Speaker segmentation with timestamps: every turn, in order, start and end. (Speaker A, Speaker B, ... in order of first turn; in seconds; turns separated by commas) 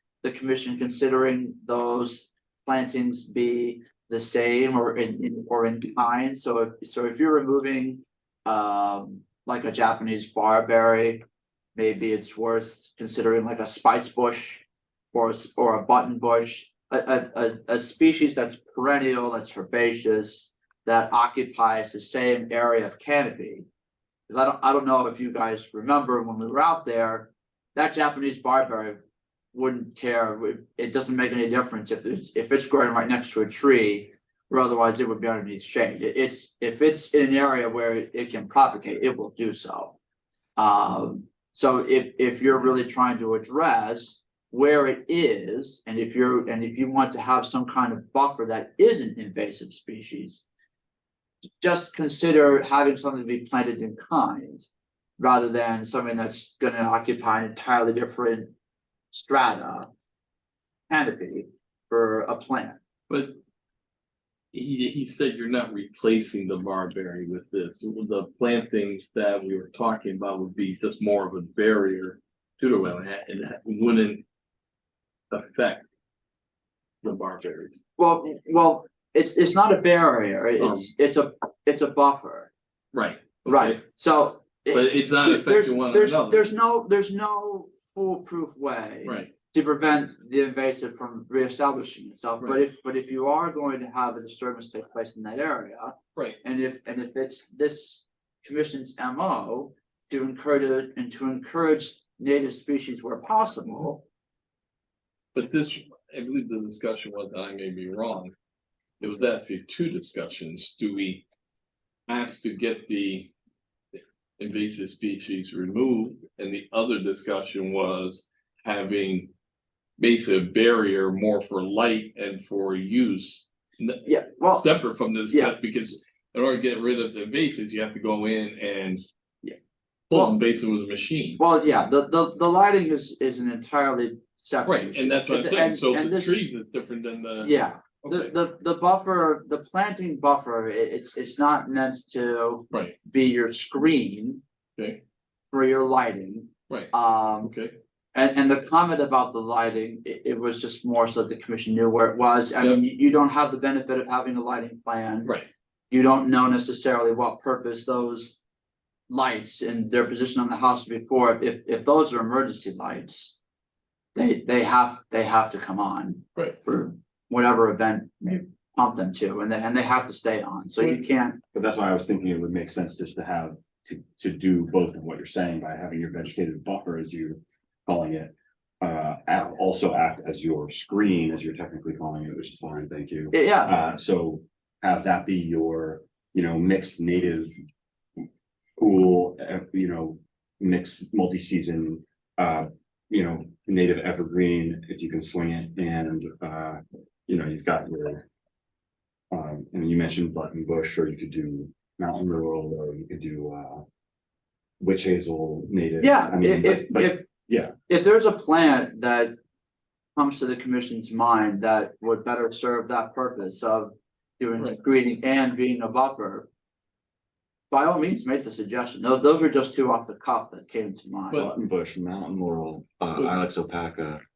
Speaker A: 0.2-11.2, Speaker A: 11.7-23.6, Speaker A: 24.3-29.0, Speaker A: 29.5-40.0, Speaker A: 40.6-50.4, Speaker A: 51.6-58.5, Speaker A: 59.1-59.9, Speaker A: 60.9-62.8, Speaker B: 63.1-63.4, Speaker B: 64.5-74.2, Speaker B: 75.3-75.8, Speaker B: 77.0-77.8, Speaker A: 78.0-82.5, Speaker B: 80.6-80.9, Speaker B: 82.9-83.8, Speaker A: 83.5-104.0, Speaker B: 84.7-86.4, Speaker B: 89.0-89.3, Speaker B: 105.3-108.3, Speaker B: 109.0-111.2, Speaker B: 112.1-113.3, Speaker B: 114.4-119.3, Speaker B: 120.0-129.0, Speaker A: 124.0-124.7, Speaker A: 125.3-125.5, Speaker B: 130.1-131.4, Speaker A: 131.4-136.5, Speaker B: 134.7-138.3, Speaker A: 137.4-144.4, Speaker B: 142.7-142.9, Speaker A: 145.5-147.5, Speaker B: 147.4-147.7, Speaker A: 148.1-155.3, Speaker A: 155.9-158.4, Speaker A: 159.1-163.4, Speaker A: 164.1-171.4, Speaker C: 171.5-187.5, Speaker A: 183.3-183.7, Speaker C: 188.8-198.3, Speaker C: 199.3-203.8, Speaker C: 204.8-207.7, Speaker A: 206.0-207.2, Speaker A: 207.9-209.3, Speaker A: 210.2-216.5, Speaker A: 217.7-221.5, Speaker C: 221.5-224.2